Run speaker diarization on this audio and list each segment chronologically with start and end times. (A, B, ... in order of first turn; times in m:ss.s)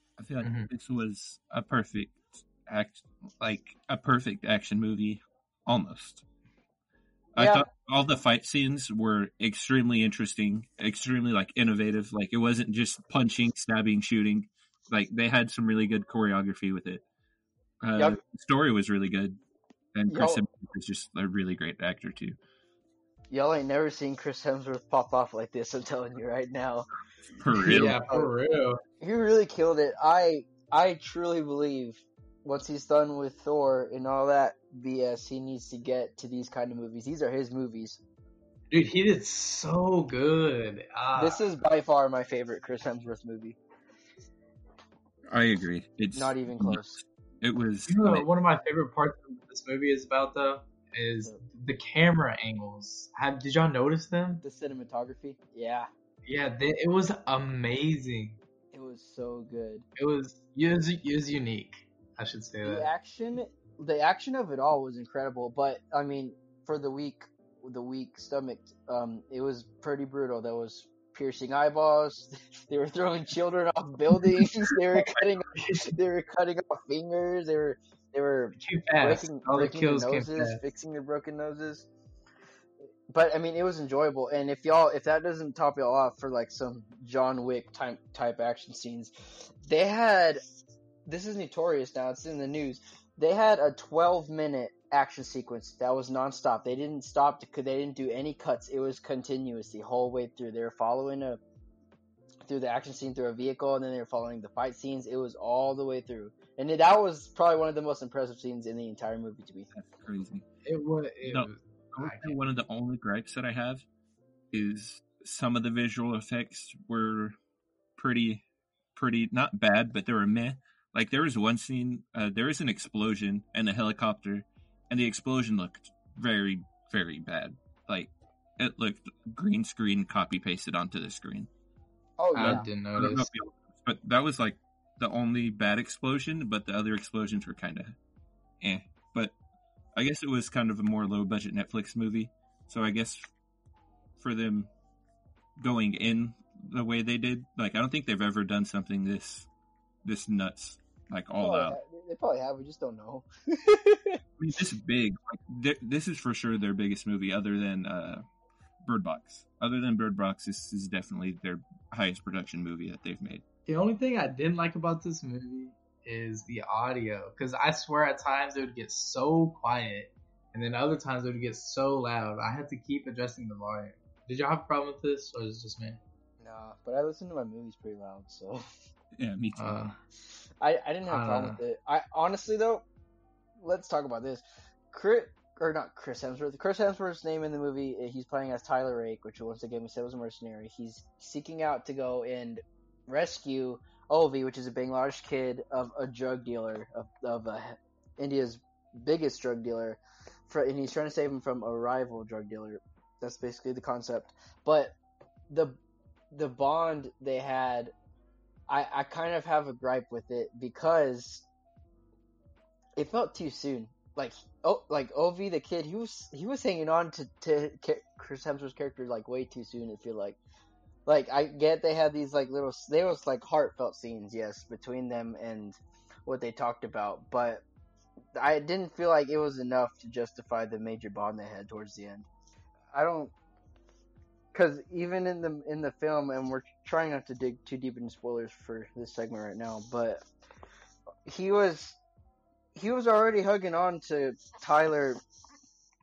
0:00.2-0:06.2 A
0:00.4-0:00.7 B
0:07.3-0:17.0 A
0:07.4-0:07.7 C
0:17.8-0:19.4 A
0:19.9-0:22.4 A
0:20.1-0:20.4 C
0:23.3-0:26.9 C
0:27.4-0:27.9 A
0:27.6-0:28.8 B
0:27.6-0:28.3 C
0:29.0-0:38.0 C
0:38.7-0:41.6 B
0:41.1-0:43.6 C
0:45.3-0:48.3 A
0:46.1-0:47.0 C
0:47.9-0:54.4 B
0:54.4-0:55.9 C
0:56.2-0:58.4 B
0:58.7-0:59.8 C
1:00.0-1:02.9 B
1:02.6-1:21.9 C
1:15.5-1:15.9 B
1:18.6-1:20.6 B
1:23.1-1:30.4 C
1:31.0-1:41.4 C
1:42.5-1:49.7 C
1:49.7-1:50.4 A
1:50.6-1:52.4 B
1:51.2-1:53.8 A
1:54.5-1:57.3 A
1:58.0-1:58.4 A
1:58.9-2:11.5 A
2:12.2-2:12.7 C
2:12.4-2:13.3 B
2:12.4-2:18.0 A
2:18.6-2:19.4 A
2:19.9-2:23.3 A
2:24.2-2:24.7 A
2:25.6-2:29.5 A
2:30.0-2:31.8 A
2:31.4-2:34.2 C
2:34.4-2:38.2 A
2:38.8-2:43.4 A
2:43.7-2:56.0 B
2:56.4-2:58.6 C
2:59.2-2:59.8 A
2:59.6-2:59.9 B
3:00.6-3:02.8 C
3:01.1-3:01.6 B
3:03.6-3:24.9 C
3:25.5-3:25.8 C
3:26.3-3:27.9 C
3:28.7-3:31.4 C
3:33.0-3:40.4 C
3:41.0-3:47.6 C
3:48.4-3:52.3 C
3:52.9-3:53.3 C
3:54.5-4:00.2 C
4:01.3-4:02.0 C
4:02.7-4:05.2 C